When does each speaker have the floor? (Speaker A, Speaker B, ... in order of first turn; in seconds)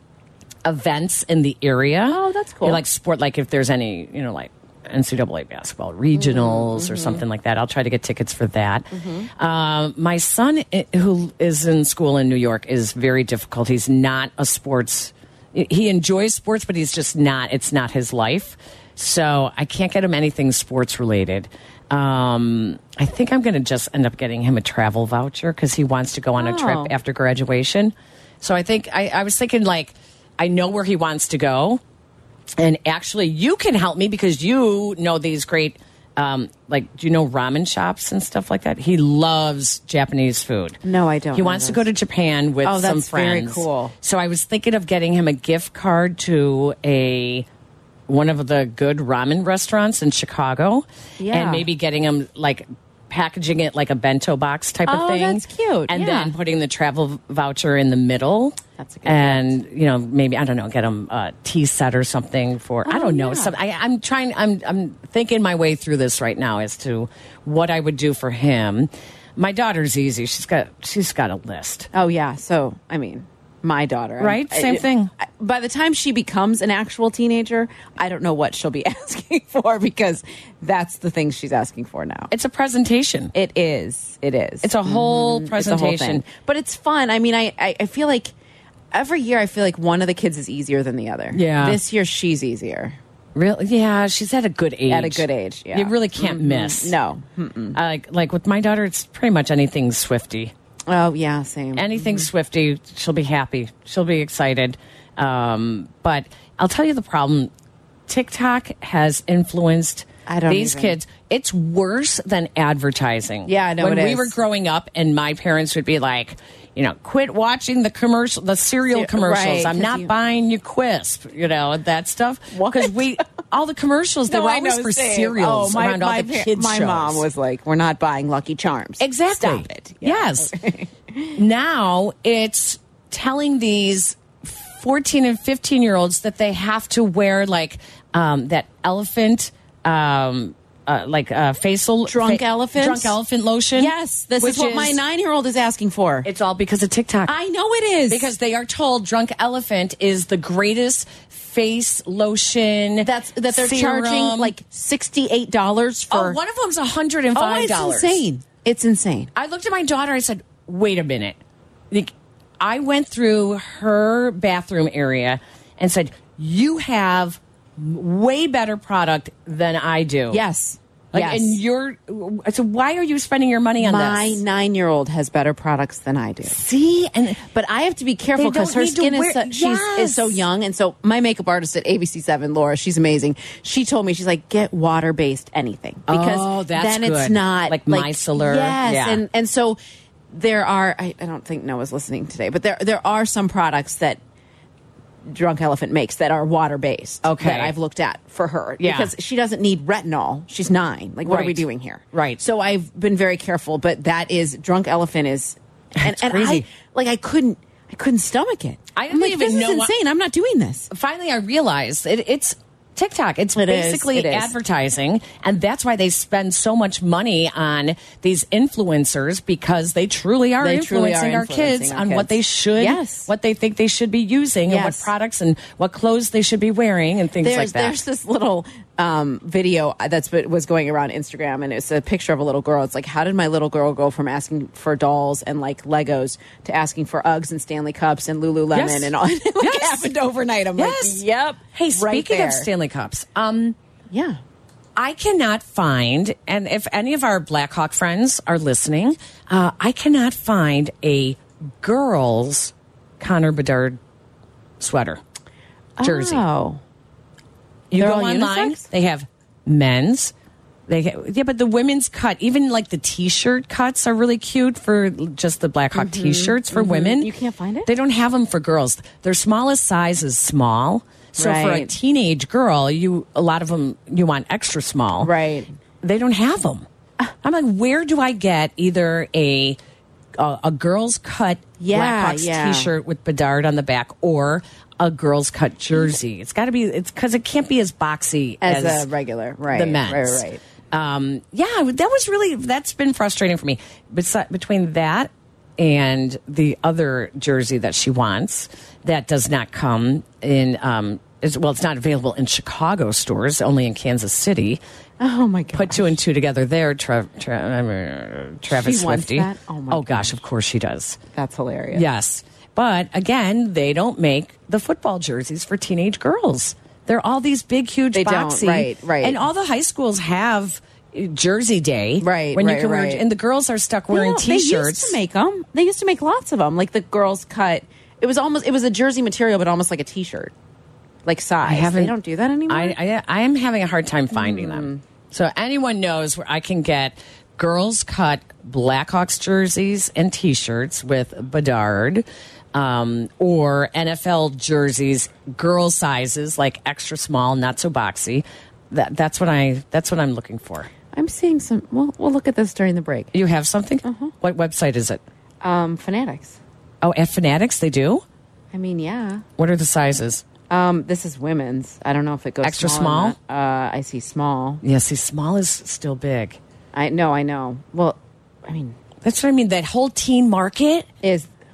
Speaker A: 0.7-31.8, 32.6-40.8, 41.3-47.5, 48.1-71.9, 74.2-75.1, 82.3-83.3, 84.6-86.2, 91.3-91.8, 93.3-97.0, 97.8-100.5, 101.8-107.5, 108.1-127.2, 129.0-130.5, 131.4-145.0, 146.2-147.3, 148.1-154.5, 156.1-158.2, 159.4-161.4, 161.9-170.4, 171.1-174.4, 176.4-177.5, 178.4-180.4, 186.1-189.2, 197.2-197.7, 198.8-199.1, 201.2-202.4, 206.0-206.7, 209.0-209.9, 210.9-228.0, 238.7-240.1, 240.8-243.8, 245.0-254.0, 254.8-255.2, 256.0-256.4, 257.9-260.3, 260.9-267.3, 267.9-275.3, 276.0-276.9, 277.4-279.8, 280.4-289.1, 289.7-304.8, 305.7-311.2, 311.9-325.2, 331.6-332.2, 332.7-350.9, 353.3-355.2, 357.0-358.2, 359.6-360.4, 362.6-363.4, 364.8-366.6, 369.2-371.1
Speaker B: 2.1-2.8, 6.1-7.2, 8.9-9.3, 26.4-26.9, 40.8-41.9, 42.6-43.9, 51.2-51.7, 54.9-56.4, 58.8-59.5, 62.9-63.5, 71.9-82.3, 83.3-88.3, 88.9-93.0, 94.9-97.8, 100.9-102.3, 110.3-111.0, 113.5-114.3, 118.9-120.1, 122.5-123.0, 124.3-131.4, 142.1-143.2, 143.8-146.3, 147.3-148.3, 153.0-156.4, 157.3-159.3, 170.3-171.6, 173.8-176.6, 177.5-189.8, 190.3-194.2, 195.3-210.9, 213.6-214.5, 220.6-223.3, 224.7-225.1, 227.4-242.7, 244.1-244.4, 256.0-256.8, 257.9-258.9, 265.9-267.9, 271.4-271.9, 275.2-275.7, 281.8-282.9, 288.6-290.6, 305.2-306.2, 308.7-310.4, 311.4-312.1, 318.1-319.4, 322.2-323.2, 324.1-330.5, 331.3-333.0, 334.3-335.0, 351.1-353.3, 354.0-354.3, 355.6-356.6, 358.7-359.4, 360.7-364.8, 366.9-369.0, 371.2-371.5